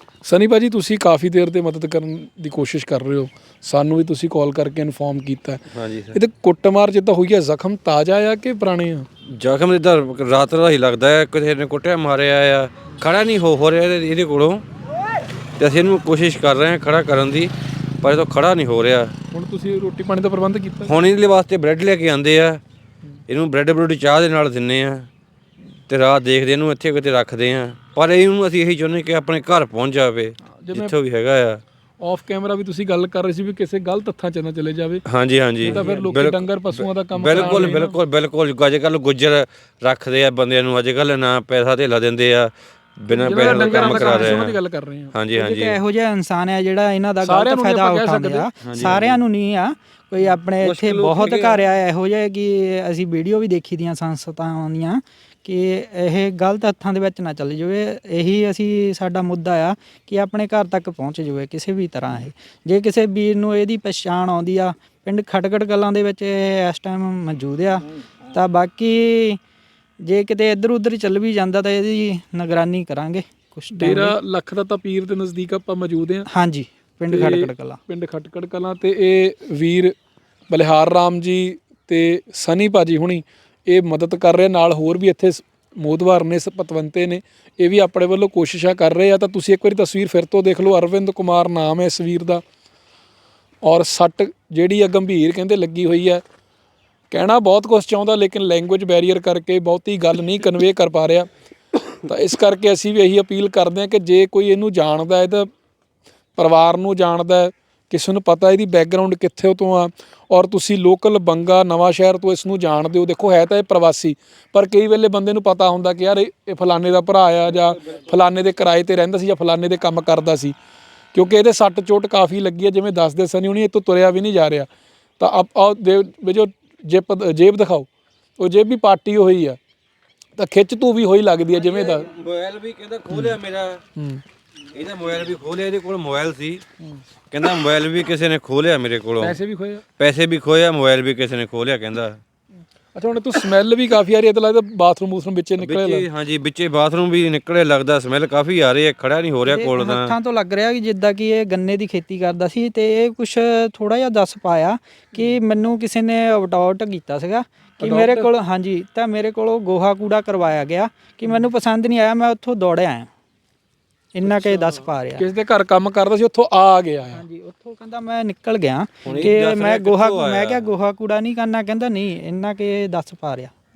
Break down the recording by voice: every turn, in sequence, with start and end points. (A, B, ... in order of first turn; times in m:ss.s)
0:00.2-0:09.1 A
0:05.7-0:06.2 B
0:09.3-0:14.6 B
0:15.6-0:19.2 B
0:19.3-0:20.9 A
0:20.9-0:22.6 B
0:23.3-0:25.1 B
0:25.9-0:31.6 B
0:30.6-0:31.0 A
0:32.0-0:35.0 A
0:35.1-0:44.6 B
0:35.6-0:38.0 A
0:35.7-0:36.1 C
0:43.2-0:44.4 C
0:43.2-0:45.2 A
0:45.1-0:45.8 B
0:45.4-1:09.4 C
0:47.2-0:48.5 A
0:48.6-0:49.2 B
0:50.6-0:51.6 B
1:10.0-1:14.2 C
1:13.7-1:16.3 A
1:16.3-1:17.8 C
1:17.1-1:20.0 A
1:20.5-1:32.4 A
1:33.6-1:36.2 A
1:37.1-1:41.3 A
1:42.1-1:45.5 A
1:46.4-2:00.6 A
1:57.5-1:58.1 B
2:01.1-2:09.6 A
2:10.4-2:12.1 A
2:11.5-2:13.8 B
2:14.0-2:14.2 A
2:14.7-2:16.6 B
2:17.3-2:19.4 B
2:19.2-2:19.8 A
2:20.0-2:22.2 B
2:23.0-2:26.1 A
2:25.6-2:30.1 B
2:29.4-2:43.1 C
2:37.8-2:38.3 A
2:44.1-2:45.3 C
2:45.2-2:47.2 A
2:47.1-2:53.5 C
2:49.0-2:50.7 B